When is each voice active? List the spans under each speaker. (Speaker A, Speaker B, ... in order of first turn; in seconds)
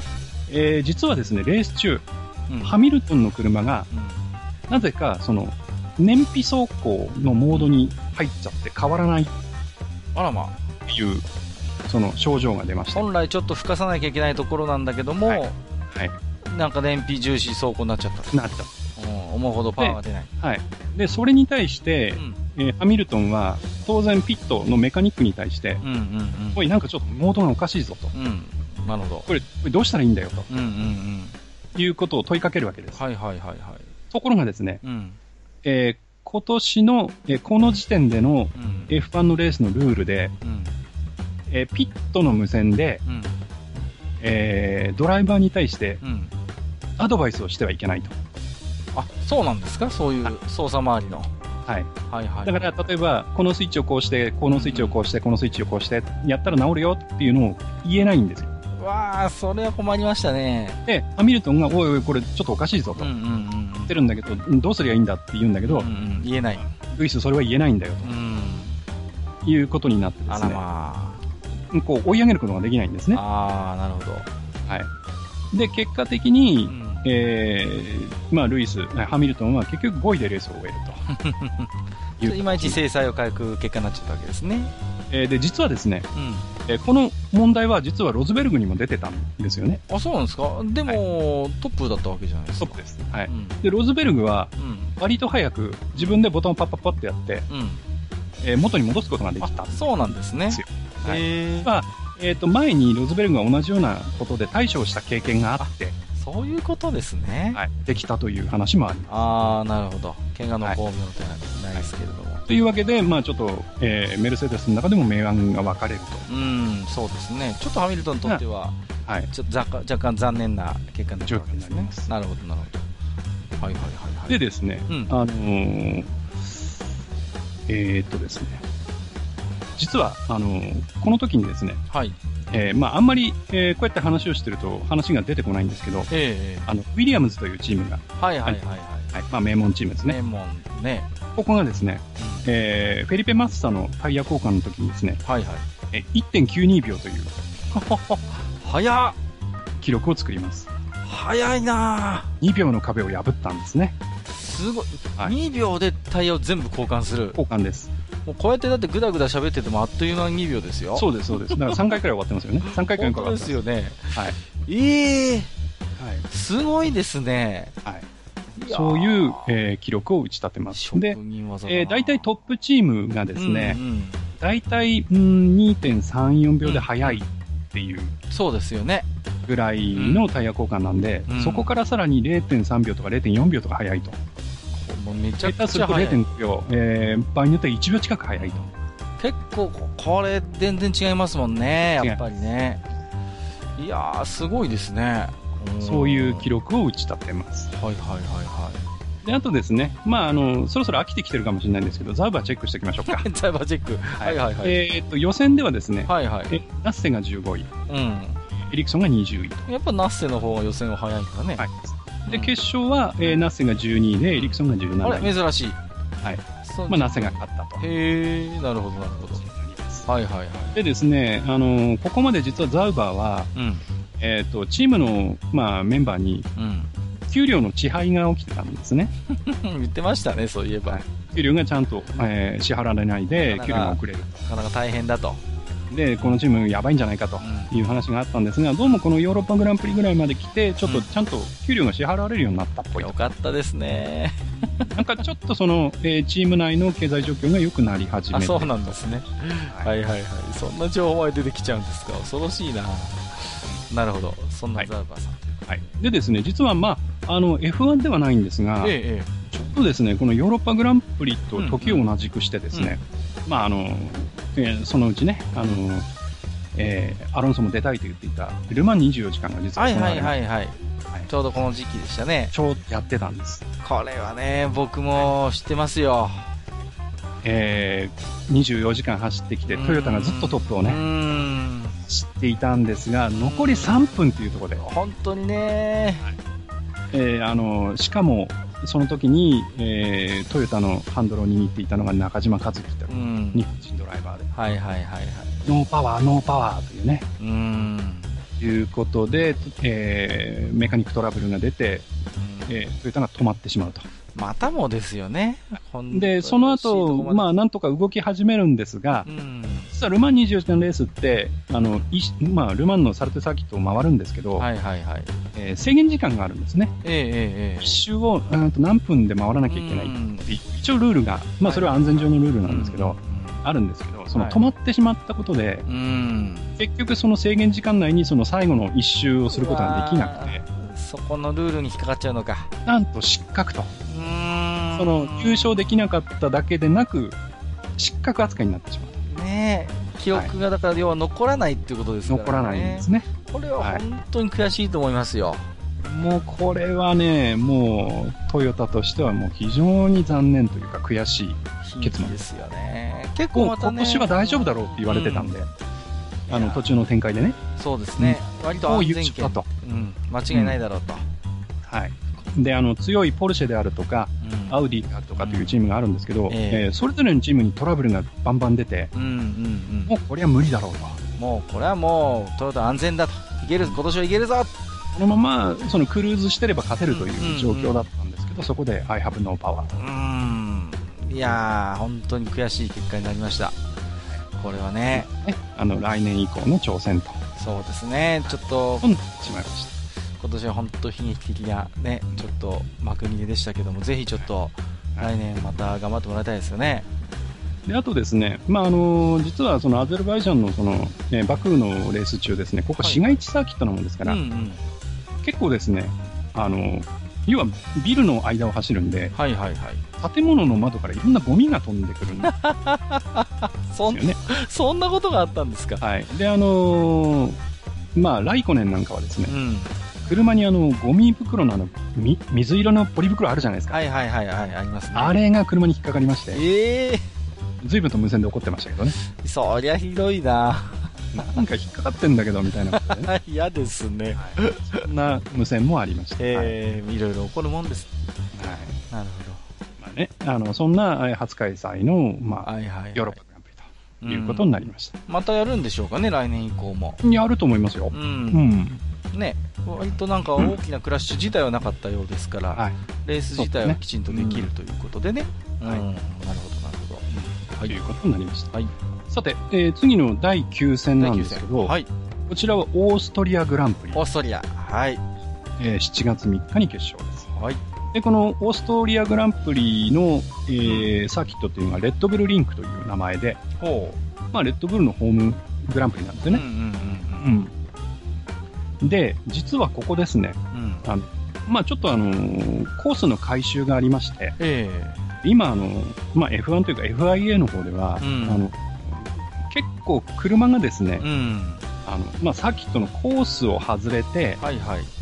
Speaker A: 0.5-2.0, 2.6-3.9, 4.7-9.3, 10.9-11.2, 11.9-13.0, 15.2-16.1, 18.3-18.7, 19.8-25.8, 26.5-28.1, 29.3-30.5, 31.7-33.0, 34.1-34.8, 35.6-40.3, 41.5-43.0, 44.2-46.0, 47.0-48.1, 52.4-58.5, 60.9-63.1, 63.9-65.9, 66.7-68.1, 69.4-70.6, 71.7-73.2, 75.5-81.0, 82.2-82.8, 85.1-86.1, 86.7-89.8, 92.6-97.5, 98.4-106.0, 107.5-109.3, 112.5-116.2, 121.2-122.1, 124.3-126.1, 127.7-128.6, 129.8-131.8, 132.5-136.1, 136.7-138.6, 139.1-140.2, 141.3-145.2, 145.9-147.3, 149.8-150.7, 152.4-153.9, 157.3-157.9, 160.9-163.6, 166.0-166.2, 168.6-173.8, 174.4-178.1, 179.4-184.2, 185.4-188.7, 195.8-197.7, 199.2-203.3, 204.2-207.7, 208.6-209.7, 211.6-215.3, 216.2-217.8, 219.4-220.1, 220.7-223.5, 224.2-226.5, 227.3-229.1, 230.9-234.4, 235.9-243.3, 244.8-249.1, 255.7-258.9, 259.5-266.1, 266.7-270.4, 272.5-273.6, 277.4-281.0, 282.0-284.8, 287.1-294.7, 295.6-297.2, 298.6-302.1, 302.7-304.1, 306.1-309.3, 309.9-314.7, 315.5-316.9, 317.8-325.8, 326.8-330.6, 332.9-333.9, 334.9-337.4, 338.0-339.2, 342.3-343.3, 346.0-352.4, 353.5-355.7, 356.5-357.6, 358.2-359.6, 360.5-360.8, 361.9-369.1, 370.1-371.2, 375.1-380.0, 385.1-387.4, 389.0-389.9, 397.9-404.4, 405.4-409.3, 410.2-412.5, 414.1-414.4, 416.0-417.6, 418.1-419.5, 420.2-424.0, 425.1-426.6, 427.8-429.1, 431.3-433.3, 434.4-436.7, 438.5-438.9, 440.0-445.1, 447.2-449.0, 453.6-454.7, 457.8-458.7, 459.3-461.9, 462.5-464.2, 465.8-467.5, 468.1-473.6, 474.5-476.6, 477.4-477.7, 479.0-484.5, 485.4-491.2, 492.1-494.6
Speaker B: 2.5-2.7, 3.9-4.2, 10.1-10.6, 12.9-15.6, 16.4-18.4, 18.9-20.3, 22.1-22.4, 25.8-26.6, 28.1-29.3, 30.5-31.4, 32.9-33.9, 34.8-35.2, 38.5-38.9, 40.4-40.8, 43.0-43.4, 46.0-46.3, 48.9-51.3, 52.1-52.7, 54.5-55.0, 58.8-60.8, 63.0-64.0, 65.7-66.7, 68.0-68.8, 70.3-71.2, 73.1-74.3, 76.7-77.0, 81.1-84.7, 86.1-86.5, 89.9-93.6, 94.6-95.0, 97.5-97.8, 99.4-101.7, 105.6-107.6, 109.1-112.4, 116.3-118.8, 119.3-122.9, 123.6-125.1, 131.9-132.2, 136.1-136.7, 138.2-139.2, 140.0-141.1, 142.2-142.5, 145.2-145.7, 147.7-149.2, 151.0-152.3, 154.3-157.4, 158.2-161.9, 162.7-165.5, 166.3-167.8, 168.6-169.6, 170.7-172.2, 173.3-174.3, 176.6-177.2, 178.3-179.1, 179.9-180.3, 181.3-181.7, 184.7-186.2, 188.4-192.8, 193.8-196.5, 197.7-198.8, 203.0-204.8, 206.1-206.6, 207.9-208.4, 209.7-211.6, 212.2-212.6, 214.3-215.8, 216.6-219.4, 220.1-220.8, 223.5-223.8, 226.6-226.9, 229.3-231.1, 233.3-235.4, 237.4-237.7, 242.9-245.0, 248.3-255.6, 258.8-259.3, 261.5-262.1, 269.8-272.5, 273.8-276.5, 279.7-282.0, 283.3-284.2, 284.8-286.3, 293.1-293.7, 294.5-295.6, 297.4-298.4, 302.3-302.8, 304.3-307.5, 309.2-309.9, 314.6-315.4, 317.0-318.0, 319.7-320.6, 321.6-323.6, 324.3-324.6, 325.9-326.8, 329.5-332.7, 334.1-336.1, 339.2-345.7, 351.8-355.6, 356.5-356.9, 357.8-361.2, 364.4-364.8, 365.4-365.8, 366.5-366.9, 369.1-370.1, 371.4-374.7, 377.1-378.0, 379.9-383.8, 384.6-385.3, 387.6-389.1, 390.4-397.1, 403.0-403.4, 404.2-404.8, 409.3-410.0, 412.3-416.0, 419.5-419.9, 423.9-425.4, 426.5-427.2, 429.2-431.1, 432.9-435.1, 436.4-438.1, 439.1-439.6, 442.6-443.4, 444.2-444.7, 445.3-447.2, 448.1-448.7, 449.3-458.0, 461.2-462.1, 464.1-465.2, 467.5-467.8, 470.8-471.1, 473.8-474.2, 476.5-477.6, 480.7-481.1, 484.6-485.3, 488.2-488.7, 491.2-491.9, 494.6-495.1